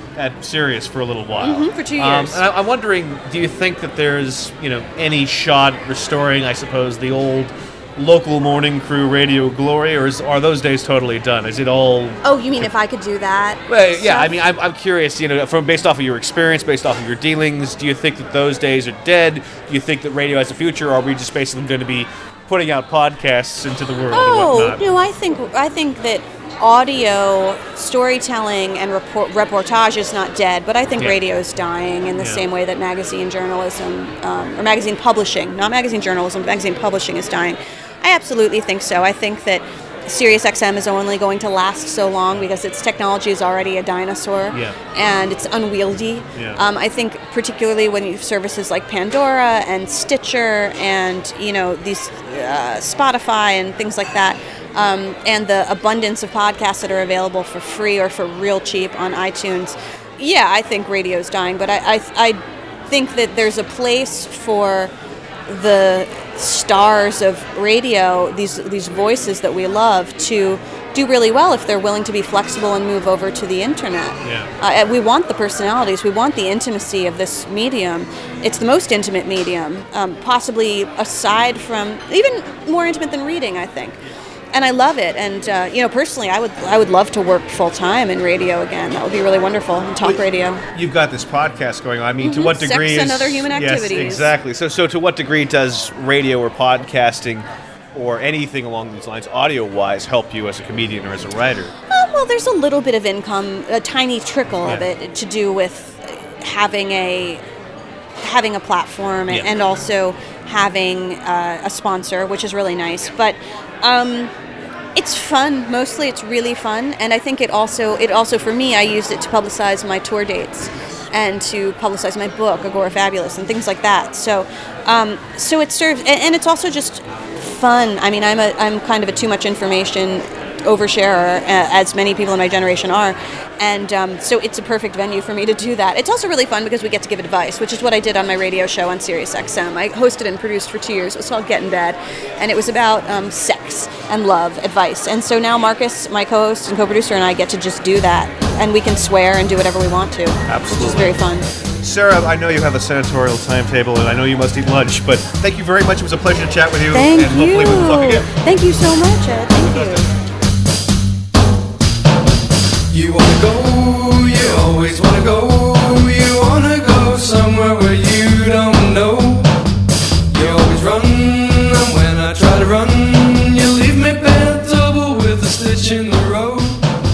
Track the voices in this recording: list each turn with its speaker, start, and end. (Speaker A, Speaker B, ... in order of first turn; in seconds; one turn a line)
Speaker A: 0.2-12.7
Speaker B: 1.4-2.4
Speaker B: 12.2-14.3
Speaker A: 13.7-24.9
Speaker B: 24.1-64.9
Speaker A: 32.2-32.4
Speaker A: 46.3-46.6
Speaker B: 65.5-84.0
Speaker A: 74.2-74.5
Speaker B: 84.5-90.6
Speaker A: 90.0-101.7
Speaker B: 92.2-94.3
Speaker B: 101.9-107.4
Speaker B: 108.2-114.3
Speaker B: 115.0-151.4
Speaker A: 150.5-151.1
Speaker A: 151.8-158.3
Speaker B: 156.9-160.0
Speaker A: 159.6-160.0
Speaker C: 162.9-169.5
Speaker C: 170.3-176.9